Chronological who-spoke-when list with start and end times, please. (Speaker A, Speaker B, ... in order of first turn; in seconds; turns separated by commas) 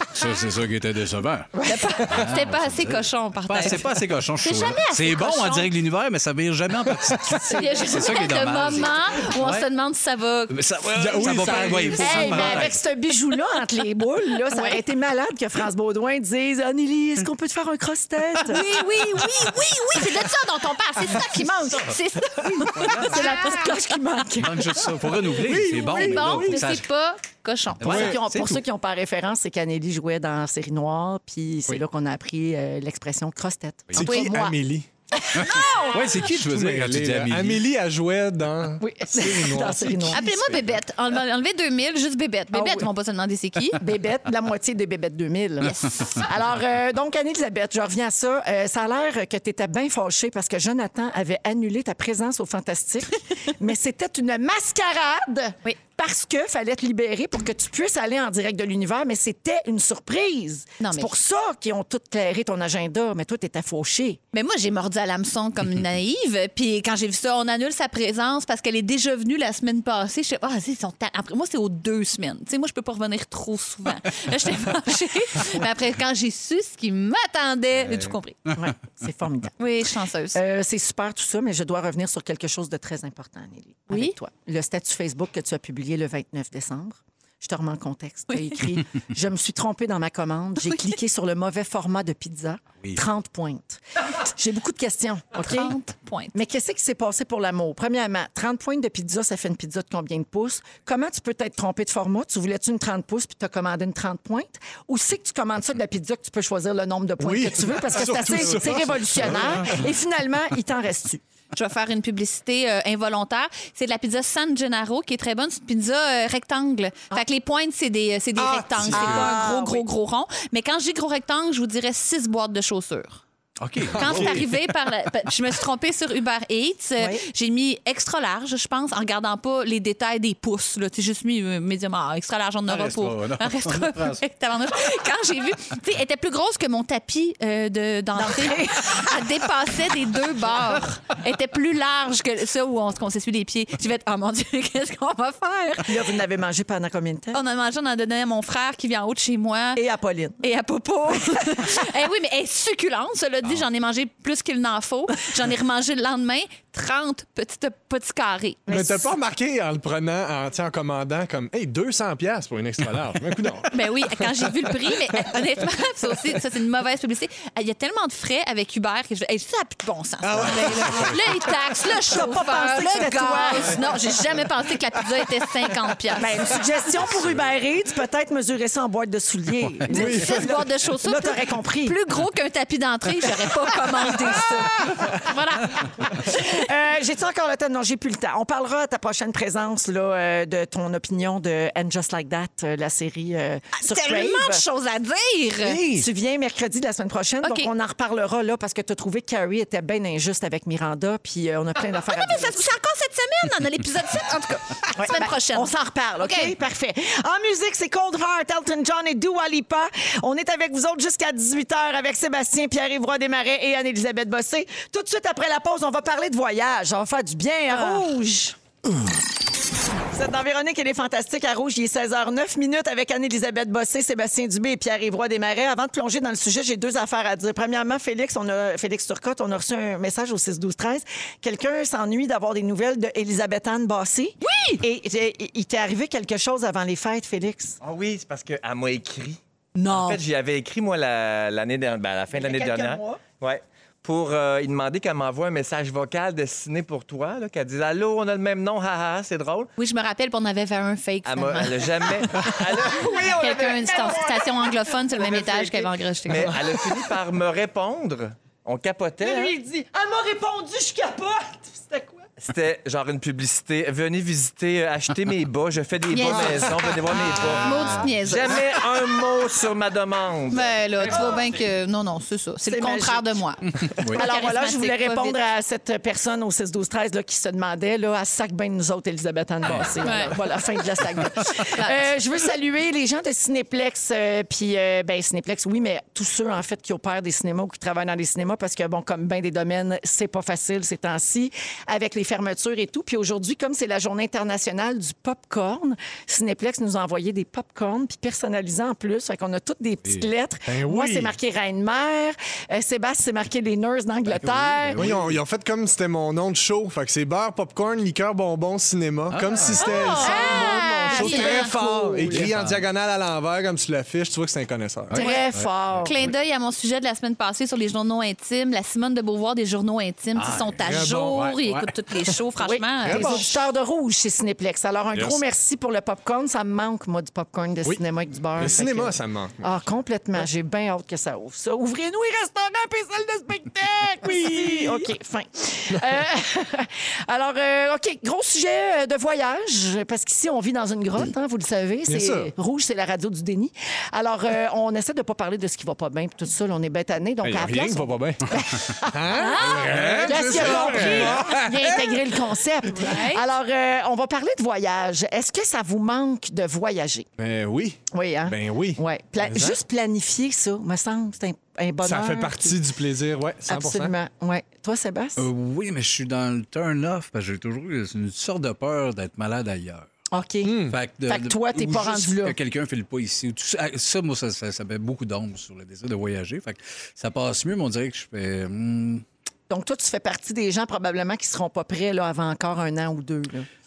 Speaker A: 0.1-1.5, Speaker B: 1.5-2.3, Speaker C: 1.6-5.7, Speaker A: 2.0-9.7, Speaker C: 7.4-10.6, Speaker B: 7.6-7.8, Speaker A: 10.5-12.8, Speaker D: 10.9-12.7, Speaker C: 11.2-12.5, Speaker B: 12.0-18.6, Speaker C: 14.5-14.8, Speaker C: 18.4-23.6, Speaker A: 22.7-23.2, Speaker B: 22.8-24.8, Speaker D: 22.9-23.5, Speaker A: 24.4-26.8, Speaker D: 25.3-26.6, Speaker C: 25.8-28.1, Speaker A: 27.8-28.6, Speaker B: 27.8-34.6, Speaker D: 27.8-28.2, Speaker A: 33.9-34.2, Speaker D: 33.9-34.9, Speaker B: 35.2-36.0, Speaker A: 35.3-37.7, Speaker C: 35.4-36.0, Speaker D: 36.2-40.5, Speaker B: 38.8-40.6, Speaker C: 40.1-43.8, Speaker B: 42.5-42.9, Speaker B: 43.7-64.2, Speaker C: 60.8-61.1, Speaker C: 64.3-78.4, Speaker A: 77.9-78.5, Speaker B: 78.5-79.6, Speaker C: 79.6-80.4, Speaker B: 80.3-95.8, Speaker C: 83.9-84.1, Speaker C: 88.3-88.6, Speaker C: 95.4-96.3, Speaker B: 96.3-111.2, Speaker D: 107.2-109.8, Speaker C: 111.5-123.2, Speaker D: 118.4-119.4, Speaker A: 118.8-119.2, Speaker B: 118.9-119.8, Speaker A: 123.6-124.5, Speaker D: 123.9-124.5, Speaker C: 124.0-146.0, Speaker B: 127.0-127.2, Speaker A: 132.7-134.2, Speaker B: 138.1-139.2, Speaker B: 145.9-147.4, Speaker C: 147.3-149.8, Speaker B: 149.8-150.4, Speaker C: 150.4-158.7, Speaker B: 158.7-159.1, Speaker D: 158.7-164.5, Speaker C: 163.7-176.4, Speaker D: 170.2-171.5, Speaker B: 171.8-173.9, Speaker B: 176.2-182.0, Speaker C: 179.9-186.3, Speaker D: 179.9-180.6, Speaker B: 184.0-184.4, Speaker B: 186.1-194.6, Speaker C: 193.8-195.8, Speaker B: 195.8-202.6, Speaker C: 197.4-197.7, Speaker C: 201.8-206.5, Speaker B: 204.9-218.6, Speaker C: 217.7-218.0, Speaker B: 220.1-237.8, Speaker C: 234.4-234.8, Speaker E: 237.8-249.7, Speaker B: 239.8-240.2, Speaker B: 242.3-243.2, Speaker C: 249.8-252.5, Speaker E: 251.2-254.4, Speaker B: 252.9-254.3, Speaker C: 253.0-256.6, Speaker E: 255.1-259.5, Speaker B: 259.2-262.3, Speaker E: 262.4-270.9, Speaker C: 266.1-266.8, Speaker D: 266.2-266.9, Speaker C: 267.4-268.7, Speaker C: 270.5-275.4, Speaker B: 272.6-273.4, Speaker A: 273.9-274.2, Speaker B: 274.0-305.1, Speaker A: 279.6-279.9, Speaker C: 280.0-280.4, Speaker C: 281.6-282.1, Speaker D: 300.7-301.3, Speaker A: 304.3-305.4, Speaker D: 304.9-315.2, Speaker A: 309.3-310.0, Speaker C: 309.8-311.7, Speaker B: 309.9-312.5, Speaker A: 312.3-312.8, Speaker A: 315.1-316.3, Speaker B: 315.1-316.1, Speaker C: 315.2-315.4, Speaker C: 316.0-323.5, Speaker A: 320.3-320.8, Speaker D: 320.8-321.9, Speaker B: 322.6-357.2, Speaker D: 323.0-323.5, Speaker D: 328.5-329.7, Speaker D: 334.4-335.0, Speaker D: 342.1-342.5, Speaker D: 347.4-352.3, Speaker C: 349.4-350.0, Speaker A: 349.9-351.3, Speaker C: 352.9-353.4, Speaker D: 357.4-359.8, Speaker B: 358.1-362.8, Speaker D: 362.0-364.1, Speaker B: 363.7-365.4, Speaker A: 365.4-370.1, Speaker B: 370.3-372.6, Speaker D: 370.6-371.0, Speaker A: 370.9-379.2, Speaker B: 379.7-383.7